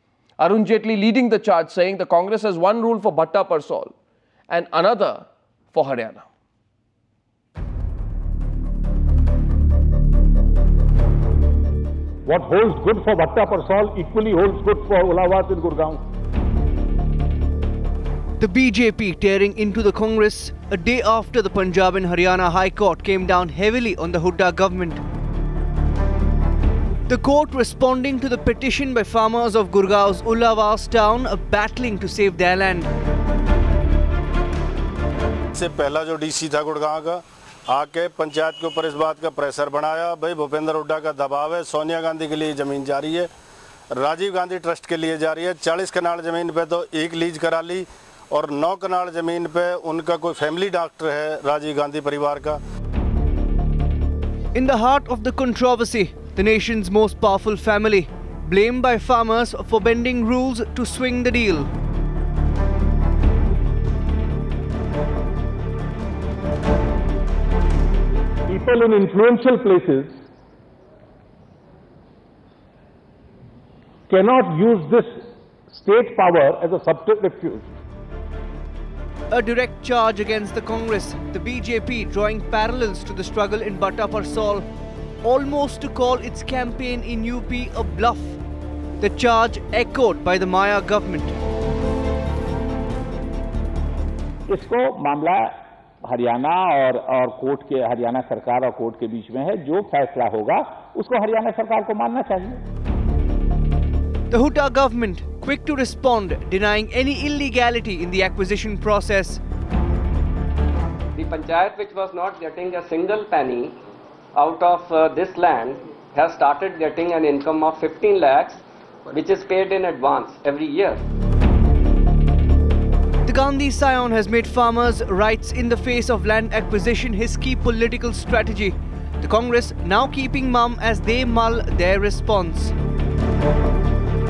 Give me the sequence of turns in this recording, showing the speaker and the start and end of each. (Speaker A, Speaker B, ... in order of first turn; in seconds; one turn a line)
Speaker A: 0.4-3.9
Speaker A: 4.5-6.3
Speaker B: 12.3-16.0
Speaker C: 18.4-25.0
Speaker C: 27.1-32.9
Speaker D: 35.5-43.3
Speaker D: 43.9-52.6
Speaker C: 54.5-61.7
Speaker B: 68.5-70.2
Speaker B: 74.1-77.7
Speaker C: 79.3-84.7
Speaker C: 85.2-88.4
Speaker C: 89.0-91.4
Speaker E: 94.5-95.5
Speaker E: 96.0-102.6
Speaker C: 104.3-109.4
Speaker F: 111.2-113.8
Speaker F: 114.3-121.0
Speaker C: 123.2-132.7